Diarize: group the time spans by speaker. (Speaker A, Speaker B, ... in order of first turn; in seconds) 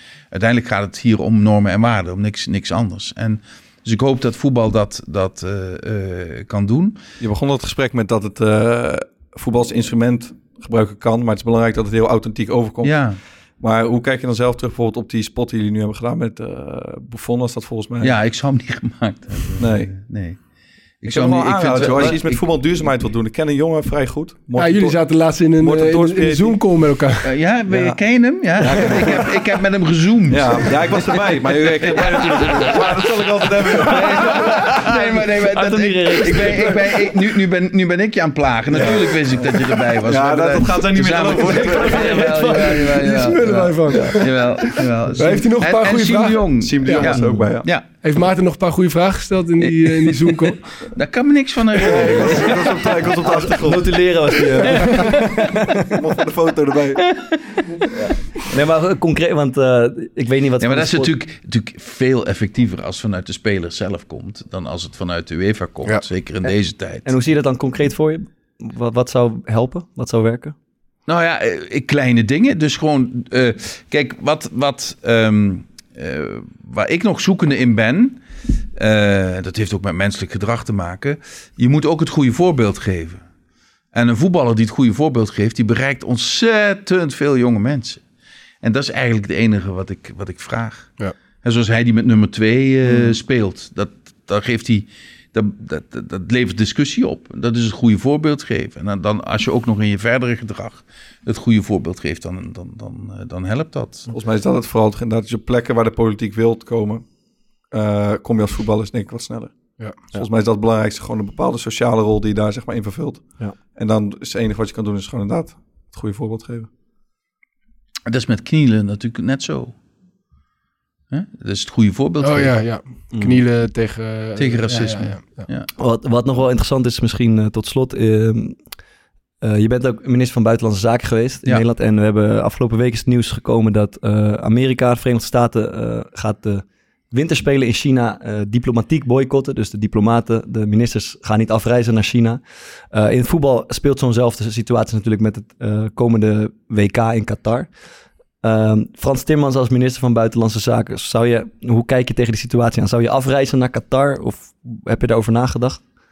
Speaker A: 0.3-7.0, 12.8-13.2, 18.0-20.4, 21.0-22.4, 27.2-47.8, 49.6-52.8, 57.1-57.4, 60.6-67.1, 71.1-78.2, 78.8-83.2, 83.9-88.0, 88.6-104.1, 118.1-119.7, 121.1-122.6, 124.3-125.7
Speaker B: 7.2-12.9, 13.6-18.1, 19.6-19.9, 21.0-25.0, 25.6-26.6, 27.7-28.0, 28.6-29.3, 30.3-34.7, 38.7-42.6, 46.6-47.7, 51.8-55.2, 55.8-57.0, 104.1-107.0, 107.7-116.7
Speaker C: 24.6-27.3, 42.9-47.1, 48.0-50.6, 122.2-125.5
Speaker D: 35.4-37.0, 41.3-43.0, 43.9-44.2, 47.2-47.5, 53.2-55.9, 58.5-61.1, 67.0-70.5, 123.1-123.4, 125.8-128.6, 129.4-142.4, 142.9-147.7, 148.4-155.8